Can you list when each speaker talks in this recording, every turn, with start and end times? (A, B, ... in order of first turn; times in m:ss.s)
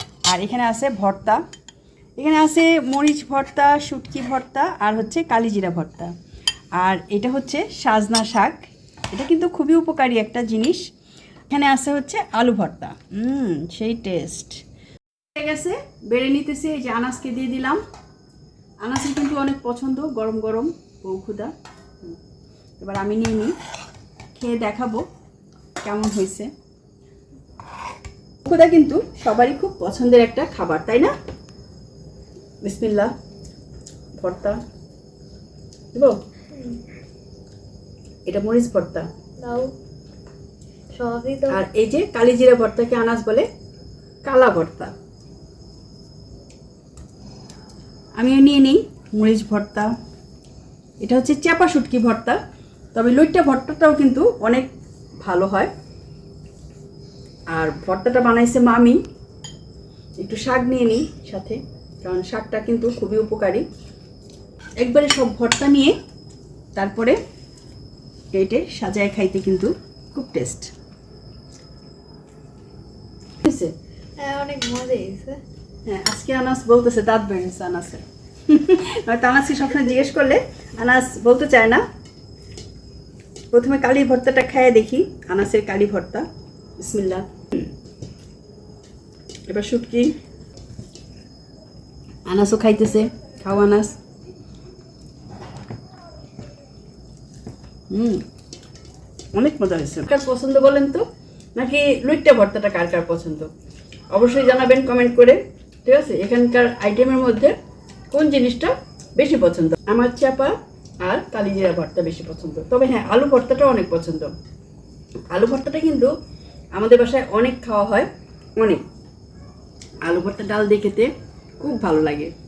0:00.2-0:01.4 A
0:02.2-0:06.2 A
0:06.8-0:10.9 A
0:11.5-0:14.6 A
0:15.3-0:17.8 A
0:18.8-0:22.2 A
0:22.8-0:23.6 A
0:24.4-0:25.1 A
0:25.8-0:26.5 A
0:28.4-0:31.1 A
0:32.6-0:33.1 A
0:34.2-0:34.6 A
0:36.5-0:36.8 B
0:38.3-0:39.1 A
0:39.4-0:39.7 B
0:40.9-0:41.6 B
0:41.5-0:43.5 A
0:44.2-0:44.9 A
0:48.2-0:49.9 A
0:51.0-0:52.4 A
0:52.9-0:54.7 A
0:55.2-0:55.7 A
0:57.5-0:59.0 A
1:00.2-1:03.7 A
1:04.8-1:06.0 A
1:06.8-1:07.2 A
1:08.3-1:10.7 A
1:13.4-1:13.7 A
1:14.2-1:15.4 B
1:15.9-1:21.8 A
1:23.5-1:26.3 A
1:26.8-1:27.6 A
1:29.5-1:30.2 A
1:32.3-1:34.0 A
1:37.9-1:38.2 A
1:39.3-1:43.5 A
1:44.1-1:47.6 A
1:48.1-1:54.3 A
1:55.3-1:56.1 A
1:56.7-1:58.8 A
2:00.0-2:02.3 A